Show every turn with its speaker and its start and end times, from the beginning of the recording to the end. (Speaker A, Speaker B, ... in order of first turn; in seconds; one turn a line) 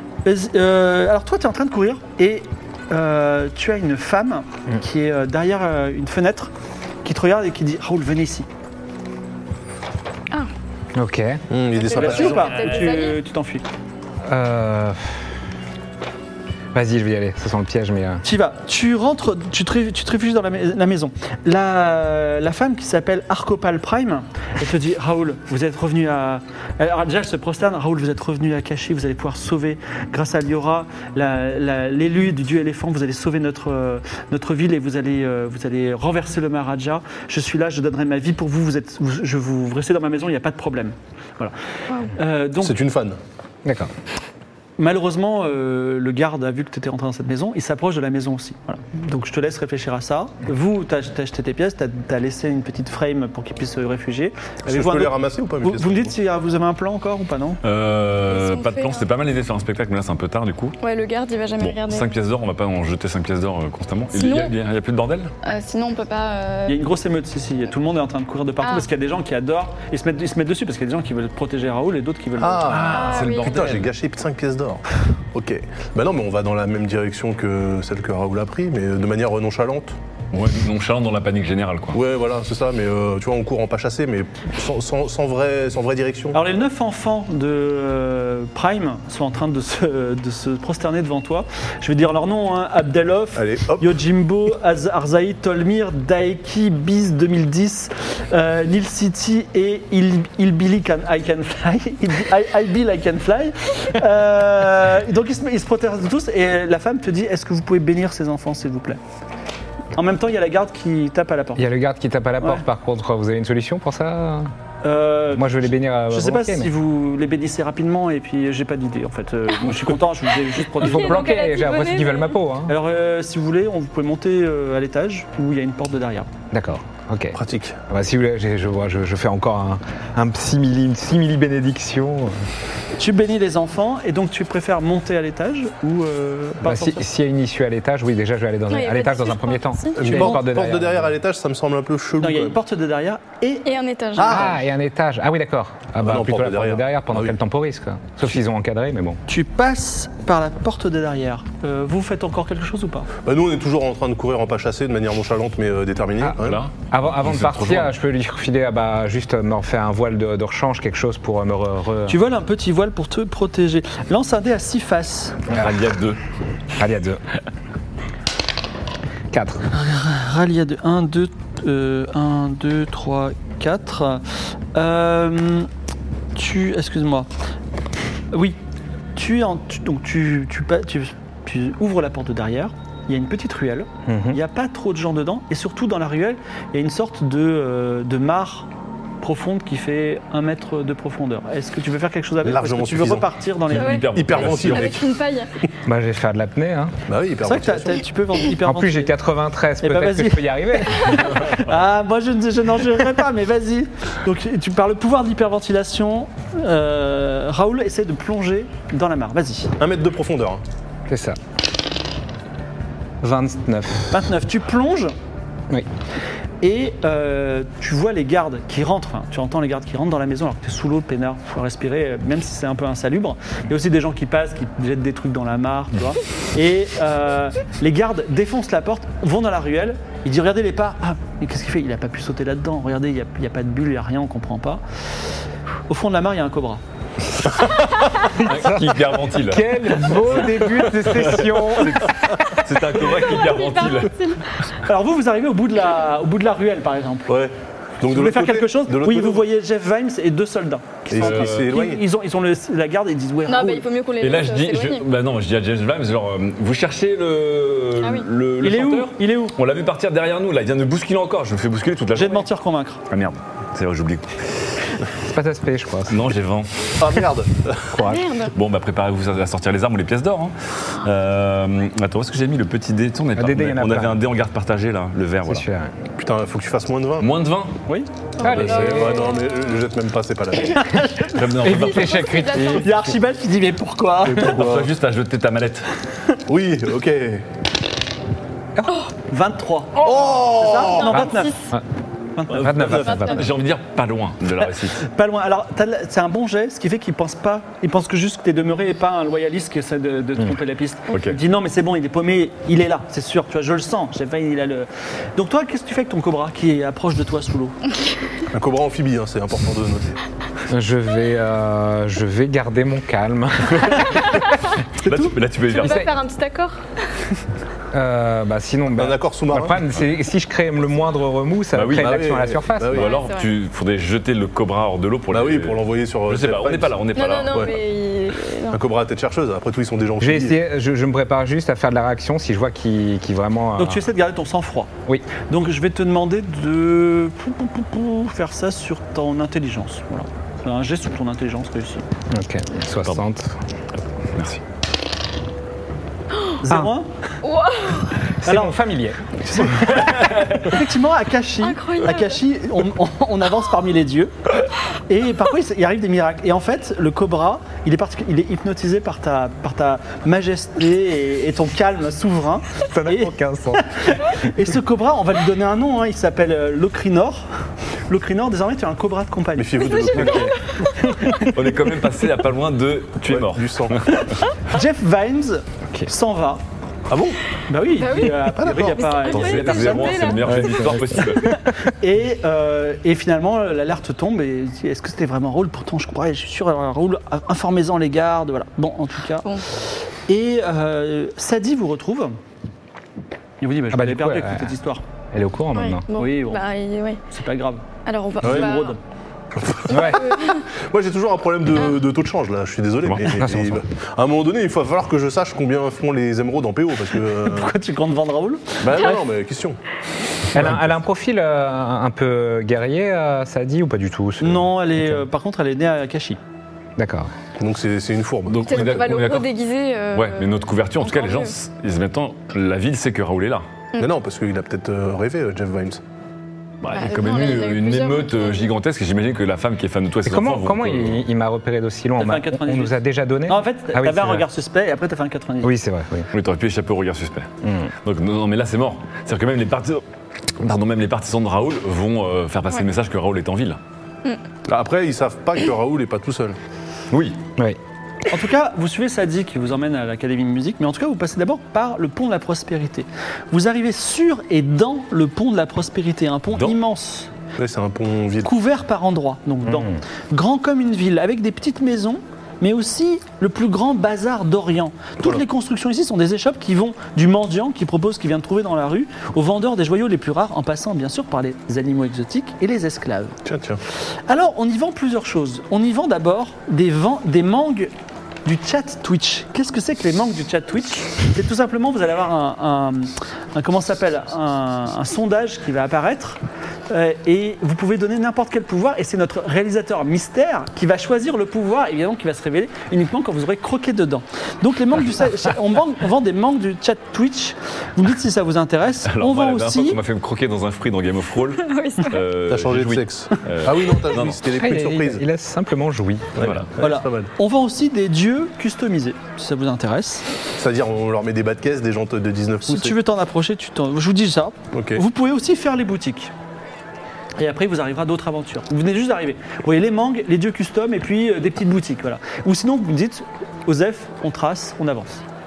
Speaker A: 0.2-6.5
Speaker A: 7.0-8.5
Speaker B: 10.9-11.4
Speaker C: 11.5-12.9
Speaker D: 11.8-13.2
Speaker A: 11.9-13.6
Speaker B: 14.2-15.2
Speaker B: 16.7-18.2
Speaker A: 18.2-41.5
Speaker A: 42.1-42.7
Speaker C: 42.6-43.2
Speaker B: 43.6-43.9
Speaker A: 44.8-57.6
Speaker C: 54.6-56.1
Speaker E: 57.6-60.8
Speaker D: 58.3-59.0
Speaker D: 60.8-62.1
Speaker E: 61.6-65.3
Speaker D: 64.1-64.5
Speaker D: 65.4-66.8
Speaker A: 66.7-72.7
Speaker C: 72.4-79.9
Speaker E: 72.7-73.9
Speaker D: 72.9-73.5
Speaker E: 80.3-82.0
Speaker C: 81.9-86.4
Speaker A: 86.3-109.0
Speaker C: 93.3-94.0
Speaker A: 109.9-111.7
Speaker B: 111.6-114.5
Speaker A: 114.8-121.3
Speaker B: 115.3-116.7
Speaker D: 120.8-122.3
Speaker B: 120.8-122.8
Speaker A: 122.7-126.3
Speaker B: 126.5-127.4
Speaker C: 127.3-127.8
Speaker B: 127.9-132.4
Speaker A: 133.0-137.0
Speaker B: 136.6-141.1
Speaker D: 138.7-140.4
Speaker C: 139.9-142.6
Speaker A: 142.2-143.7
Speaker D: 143.6-144.4
Speaker C: 144.2-144.5
Speaker B: 144.2-149.2
Speaker C: 146.0-147.3
Speaker A: 149.3-153.1
Speaker C: 153.2-156.6
Speaker B: 156.2-162.2
Speaker E: 156.4-157.9
Speaker A: 162.1-165.4
Speaker B: 165.5-165.8
Speaker E: 165.5-166.2
Speaker B: 166.8-167.2
Speaker B: 169.3-169.6
Speaker A: 169.7-174.2
Speaker A: 174.7-175.7
Speaker A: 176.3-177.3
Speaker A: 178.3-178.6
Speaker A: 179.2-188.7
Speaker B: 184.1-184.4
Speaker A: 189.2-194.0
Speaker C: 192.4-193.3
Speaker E: 193.7-195.0
Speaker D: 193.8-195.5
Speaker C: 194.1-195.1
Speaker B: 195.8-196.9
Speaker C: 197.1-198.0
Speaker A: 197.4-199.1
Speaker B: 198.6-201.4
Speaker A: 199.8-209.7
Speaker C: 209.8-210.6
Speaker B: 211.1-211.4
Speaker B: 213.2-214.1
Speaker A: 214.1-215.1
Speaker A: 216.6-234.8
Speaker A: 235.9-236.8
Speaker E: 238.3-244.2
Speaker B: 238.4-242.1
Speaker D: 243.4-244.4
Speaker A: 244.8-247.3
Speaker C: 247.3-249.4
Speaker A: 248.1-253.9
Speaker C: 251.1-252.0
Speaker E: 251.2-251.7
Speaker D: 253.5-255.0
Speaker E: 254.2-262.5
Speaker D: 258.0-258.2
Speaker A: 258.6-259.5
Speaker A: 262.1-263.0
Speaker E: 263.1-264.7
Speaker B: 265.2-266.3
Speaker E: 266.1-267.0
Speaker C: 267.0-268.0
Speaker B: 267.9-268.2
Speaker D: 268.0-268.5
Speaker E: 268.5-275.6
Speaker B: 273.4-274.2
Speaker B: 275.4-275.9
Speaker C: 276.2-277.3
Speaker E: 277.2-277.8
Speaker D: 278.4-279.6
Speaker B: 278.4-279.4
Speaker C: 278.4-281.1
Speaker A: 280.6-281.4
Speaker E: 281.3-282.4
Speaker B: 281.6-283.0
Speaker D: 281.8-283.0
Speaker A: 282.7-284.6
Speaker C: 284.2-284.9
Speaker E: 284.4-285.9
Speaker C: 286.5-287.4
Speaker A: 289.3-291.5
Speaker D: 290.0-291.5
Speaker C: 290.0-291.2
Speaker B: 291.1-291.8
Speaker A: 292.4-293.2
Speaker B: 292.5-293.5
Speaker C: 292.5-293.4
Speaker D: 293.0-293.4
Speaker E: 293.3-295.0
Speaker A: 295.0-307.8
Speaker E: 301.1-301.4
Speaker C: 308.5-310.2
Speaker B: 310.7-314.4
Speaker E: 315.0-316.1
Speaker A: 315.0-315.4
Speaker D: 315.7-316.8
Speaker B: 315.8-316.1
Speaker B: 317.9-323.1
Speaker C: 319.0-319.8
Speaker E: 321.7-327.7
Speaker C: 321.9-323.1
Speaker D: 323.0-323.5
Speaker C: 325.3-327.8
Speaker D: 327.1-328.8
Speaker C: 328.7-330.6
Speaker B: 330.2-334.1
Speaker A: 333.8-334.9
Speaker A: 335.4-342.0
Speaker B: 342.3-343.6
Speaker E: 344.3-344.6
Speaker A: 346.6-347.1
Speaker D: 347.4-348.1
Speaker B: 348.4-349.7
Speaker A: 348.4-348.7
Speaker A: 349.5-354.5
Speaker D: 351.6-352.4
Speaker A: 355.1-367.4
Speaker B: 362.9-364.0
Speaker A: 368.1-370.3
Speaker C: 369.6-370.5
Speaker D: 370.1-370.5
Speaker B: 370.2-370.5
Speaker A: 371.1-371.4
Speaker E: 371.4-374.2
Speaker C: 373.3-374.0
Speaker A: 374.7-376.6
Speaker C: 377.1-377.4
Speaker A: 377.7-380.2
Speaker D: 377.9-381.0
Speaker C: 378.4-379.0
Speaker E: 379.3-381.6
Speaker B: 380.4-381.5
Speaker A: 381.8-389.5
Speaker A: 390.3-392.4
Speaker A: 393.6-395.0
Speaker B: 393.9-394.7
Speaker B: 395.3-396.0
Speaker D: 395.7-397.2
Speaker A: 396.1-396.6
Speaker A: 397.3-397.9
Speaker D: 398.1-398.9
Speaker A: 398.4-399.0
Speaker C: 398.4-398.7
Speaker C: 399.5-407.7
Speaker B: 399.9-400.3
Speaker D: 400.0-400.6
Speaker B: 403.2-403.8
Speaker A: 407.4-409.1
Speaker C: 408.8-409.8
Speaker B: 410.5-415.2
Speaker A: 414.4-416.4
Speaker B: 417.0-417.3
Speaker C: 417.6-419.2
Speaker E: 418.5-419.5
Speaker D: 418.7-421.5
Speaker E: 420.1-423.6
Speaker C: 424.0-426.0
Speaker E: 426.8-431.2
Speaker D: 426.9-428.7
Speaker B: 430.2-434.4
Speaker A: 432.2-435.8
Speaker B: 435.6-436.3
Speaker E: 436.3-437.5
Speaker B: 437.6-437.9
Speaker E: 438.0-440.0
Speaker E: 440.6-443.8
Speaker C: 444.7-446.6
Speaker E: 447.1-447.4
Speaker A: 448.3-457.3
Speaker C: 457.6-458.5
Speaker A: 458.4-473.4
Speaker B: 459.6-460.0
Speaker C: 473.4-473.8
Speaker A: 474.3-477.9
Speaker A: 478.4-500.0
Speaker E: 499.1-504.4
Speaker D: 501.6-502.2
Speaker C: 502.5-505.2
Speaker B: 504.5-506.4
Speaker C: 506.4-507.3
Speaker E: 506.4-506.7
Speaker A: 506.8-510.2
Speaker C: 510.6-513.0
Speaker A: 512.6-516.3
Speaker C: 514.7-515.0
Speaker A: 517.4-525.2